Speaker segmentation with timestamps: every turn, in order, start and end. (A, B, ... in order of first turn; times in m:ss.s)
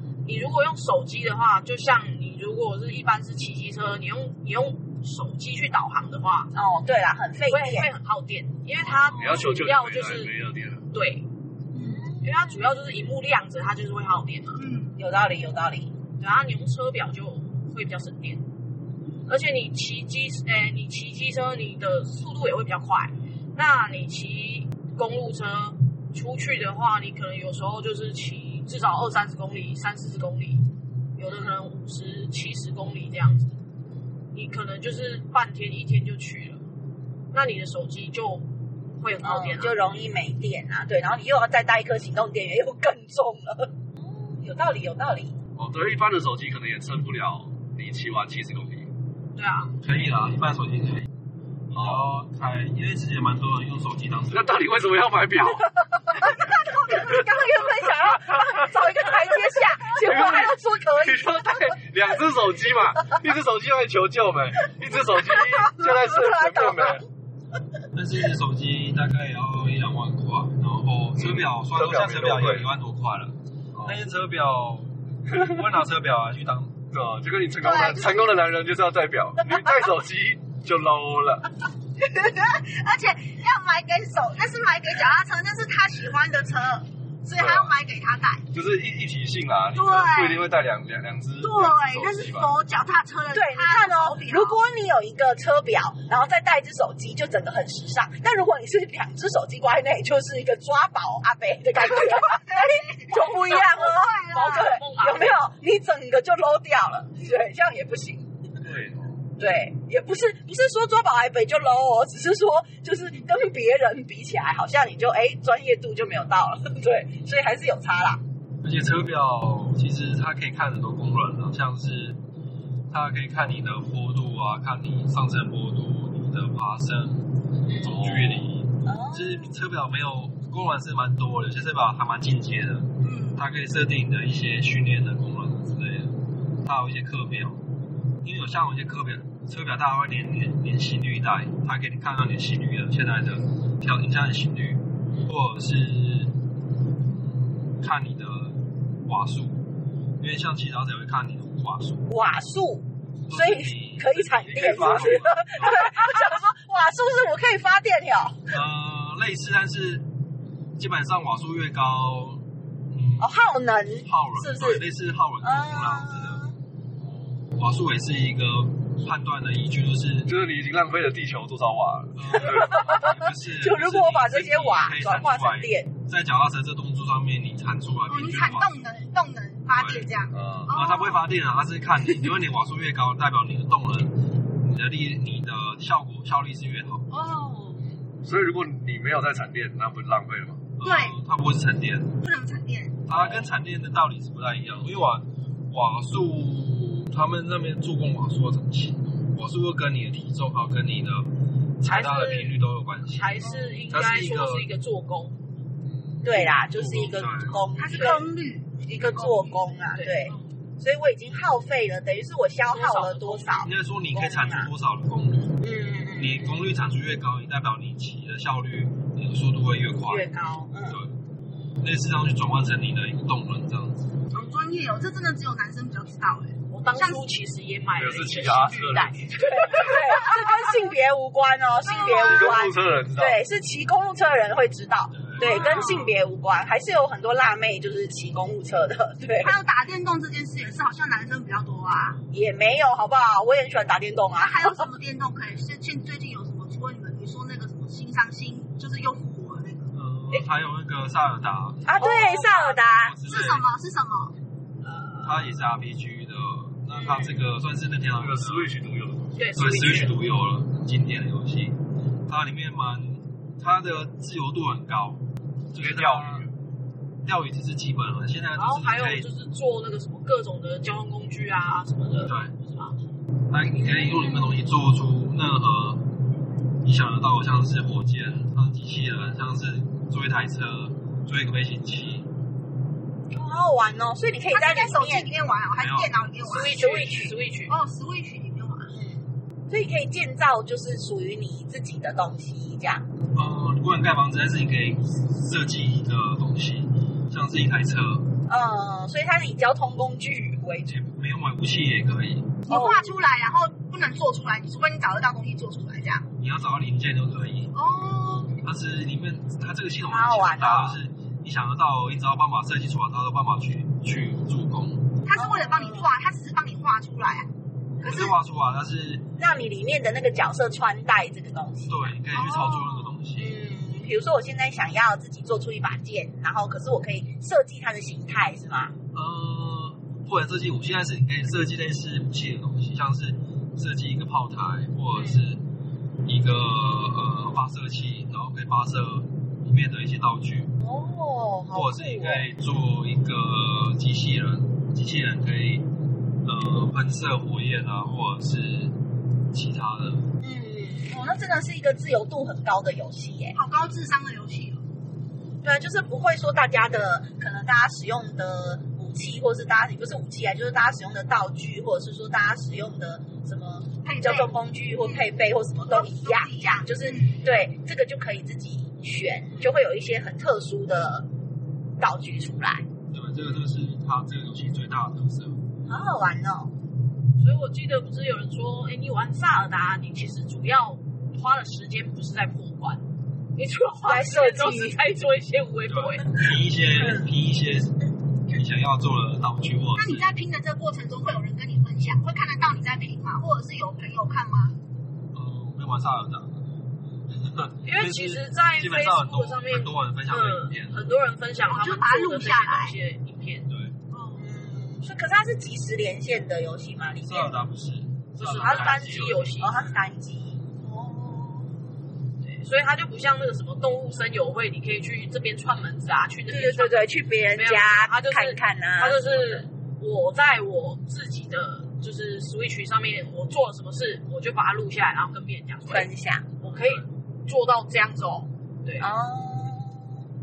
0:00.2-0:06.5 A
0:06.5-0:07.9 B
0:07.5-0:10.3 A
0:08.9-0:10.8 C
0:10.9-0:11.3 A
0:11.7-0:12.6 B
0:12.2-0:14.6 A
0:14.6-0:15.0 D
0:15.0-0:15.9 B
0:16.2-0:18.4 A
0:19.3-0:30.7 A
0:31.2-0:33.6 A
0:34.3-0:36.6 A
0:37.3-0:39.8 A
0:39.2-0:45.4 B
0:45.6-0:48.9 C
0:49.4-0:49.7 A
0:49.8-0:51.1 E
0:51.7-0:54.6 E
0:51.7-0:52.1 C
0:54.3-0:56.3 C
0:56.1-1:01.8 B
0:56.9-0:58.9 C
0:59.8-1:07.1 C
1:06.1-1:07.1 B
1:07.9-1:16.8 E
1:11.2-1:12.7 C
1:13.7-1:14.0 C
1:16.9-1:21.5 C
1:17.6-1:18.4 D
1:22.0-1:28.4 D
1:27.4-1:27.8 C
1:28.5-1:32.6 C
1:29.7-1:30.5 D
1:31.4-1:34.6 D
1:33.3-1:48.4 B
1:41.9-1:44.7 D
1:43.5-1:45.4 A
1:48.6-1:49.2 E
1:49.4-1:58.2 B
1:58.6-2:02.2 E
2:02.9-2:17.6 E
2:07.8-2:08.5 C
2:08.8-2:09.5 B
2:13.0-2:13.4 D
2:18.2-2:26.4 E
2:27.0-2:29.6 E
2:30.2-2:32.1 E
2:32.1-2:38.5 B
2:33.3-2:36.1 E
2:34.6-2:35.2 C
2:38.5-2:40.1 E
2:40.8-2:43.5 E
2:43.2-2:44.8 B
2:44.0-2:46.5 E
2:45.4-2:46.5 B
2:47.5-2:50.3 E
2:50.3-2:52.8 C
2:52.2-2:58.9 E
2:52.4-2:55.9 B
2:58.1-3:01.3 D
2:59.7-3:00.1 E
3:00.3-3:00.8 C
3:00.6-3:07.1 E
3:07.1-3:07.9 D
3:08.2-3:10.7 C
3:10.8-3:12.2 E
3:10.8-3:11.2 D
3:12.2-3:13.0 D
3:13.1-3:24.7 E
3:13.2-3:13.4 C
3:21.8-3:22.5 A
3:23.1-3:25.4 A
3:23.4-3:23.8 D
3:25.9-3:27.7 E
3:26.2-3:28.3 B
3:27.8-3:29.6 D
3:28.9-3:34.7 B
3:29.9-3:30.4 A
3:32.7-3:33.6 A
3:33.6-3:40.3 E
3:35.6-3:36.6 B
3:40.1-3:41.0 B
3:40.9-3:41.2 E
3:41.8-3:44.2 E
3:44.3-3:47.3 D
3:46.7-3:49.8 A
3:48.0-3:49.3 C
3:49.3-3:59.6 B
3:49.8-3:50.6 D
3:51.8-3:52.7 D
3:52.1-3:53.4 C
3:55.1-3:56.0 E
3:55.4-3:56.1 D
3:59.4-4:02.2 D
4:02.3-4:04.9 B
4:04.4-4:09.9 D
4:09.9-4:13.7 E
4:11.8-4:13.2 B
4:12.0-4:12.8 A
4:13.2-4:14.3 D
4:14.8-4:15.4 A
4:15.2-4:18.7 E
4:17.0-4:17.3 A
4:18.2-4:19.4 C
4:19.4-4:20.2 A
4:19.6-4:26.5 E
4:25.8-4:26.5 C
4:27.2-4:29.3 E
4:28.6-4:33.0 A
4:32.2-4:32.6 E
4:33.5-4:36.2 E
4:33.8-4:34.4 B
4:36.8-4:42.3 E
4:43.3-4:45.3 B
4:44.5-4:47.0 D
4:45.7-4:46.3 E
4:46.4-4:47.7 A
4:46.6-4:47.3 B
4:47.7-4:48.9 D
4:48.9-4:53.0 B
4:53.4-4:58.4 E
4:58.5-5:00.9 B
5:00.9-5:02.6 E
5:02.7-5:06.3 D
5:02.7-5:03.2 B
5:06.4-5:07.8 E
5:07.8-5:08.6 D
5:08.5-5:15.2 E
5:10.1-5:11.0 B
5:15.2-5:17.5 D
5:15.4-5:16.1 B
5:17.9-5:19.3 E
5:18.0-5:18.3 D
5:19.4-5:22.2 B
5:21.9-5:23.6 E
5:22.3-5:23.2 D
5:23.4-5:28.9 B
5:29.1-5:35.6 E
5:35.1-5:35.4 B
5:36.2-5:40.8 E
5:40.8-5:42.5 B
5:41.7-5:45.9 E
5:46.4-5:49.0 E
5:49.5-5:50.3 E
5:50.4-5:53.6 B
5:53.6-5:54.8 D
5:55.6-6:11.3 B
6:04.0-6:05.3 D
6:05.9-6:07.4 D
6:12.0-6:12.9 B
6:13.1-6:15.6 E
6:15.9-6:16.7 B
6:17.4-6:23.0 A
6:23.6-6:26.3 A
6:24.1-6:25.0 B
6:25.9-6:30.3 E
6:30.0-6:34.8 D
6:35.3-6:36.6 E
6:37.3-6:41.1 E
6:37.8-6:43.7 A
6:41.7-6:42.9 D
6:43.7-6:44.0 E
6:44.1-6:44.4 D
6:44.3-6:47.6 B
6:47.2-6:49.7 E
6:48.4-6:49.8 A
6:48.6-6:51.8 B
6:52.4-7:06.1 A
6:56.5-6:59.5 B
7:05.9-7:06.5 B
7:06.6-7:09.1 A
7:06.8-7:07.0 E
7:09.0-7:10.1 B